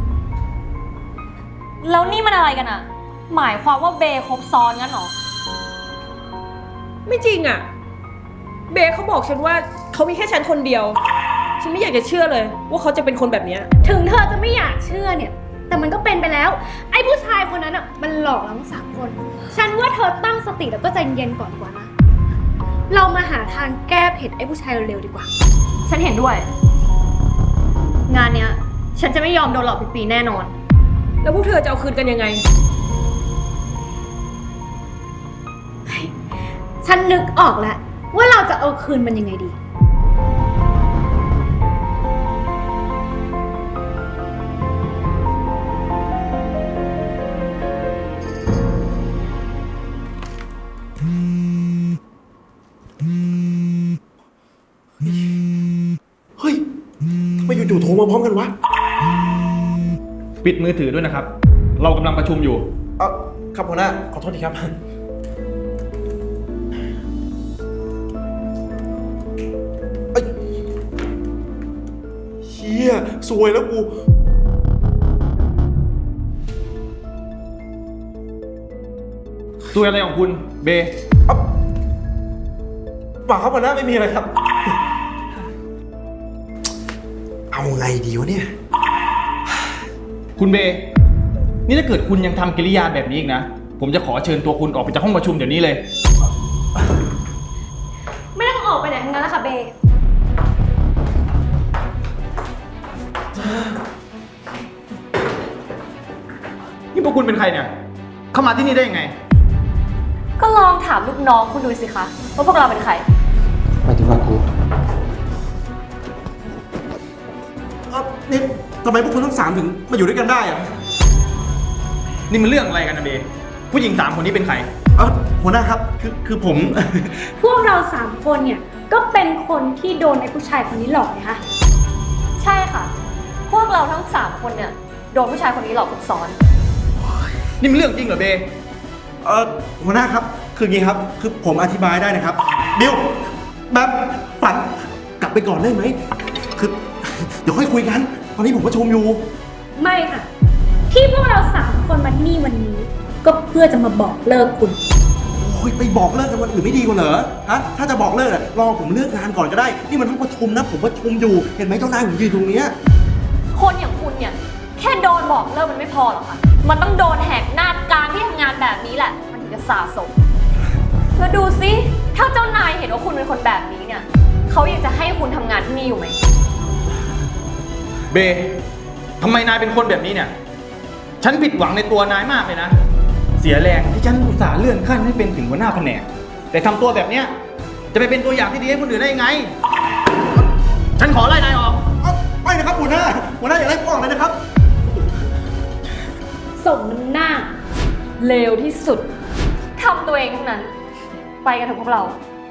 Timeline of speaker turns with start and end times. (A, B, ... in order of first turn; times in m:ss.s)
0:01.8-0:05.1 A
0:07.0-0:07.6 B
0:08.7-0:11.0 B
0:11.6-0:13.7 B
0:13.8-0:21.9 C
0:22.9-0:25.3 C
0:25.8-0:26.5 A
0:28.1-0:30.5 A
0:31.2-0:32.4 B
0:35.9-0:36.1 C
0:36.8-0:39.5 C
0:55.0-0:55.3 D
0:57.4-0:58.5 D
1:00.4-1:02.7 E
1:03.0-1:04.8 D
1:12.4-1:13.9 D
1:19.7-1:20.9 E
1:23.2-1:24.4 D
1:27.5-1:28.5 D
1:30.4-1:30.9 E
1:31.7-1:35.8 E
1:38.3-1:39.7 C
1:43.4-1:43.7 D
1:46.9-1:47.7 E
1:48.3-1:49.1 E
1:50.4-1:53.0 A
1:53.9-1:54.4 D
1:57.9-2:00.7 D
2:02.3-2:04.7 E
2:04.9-2:07.3 D
2:07.4-2:11.4 C
2:12.4-2:12.9 A
2:13.5-2:16.4 A
2:17.6-2:18.5 E
2:19.2-2:26.0 D
2:26.5-2:29.3 D
2:29.8-2:30.3 C
2:30.9-2:34.8 C
2:35.3-2:42.7 D
2:43.5-2:50.1 A
2:51.2-2:56.2 A
2:58.1-2:58.6 E
2:59.2-3:00.3 E
3:01.2-3:02.8 E
3:03.4-3:07.3 E
3:07.9-3:09.5 E
3:11.0-3:11.8 E
3:12.0-3:14.4 D
3:16.6-3:17.5 C
3:18.2-3:19.1 A
3:19.8-3:20.7 A
3:21.4-3:22.2 A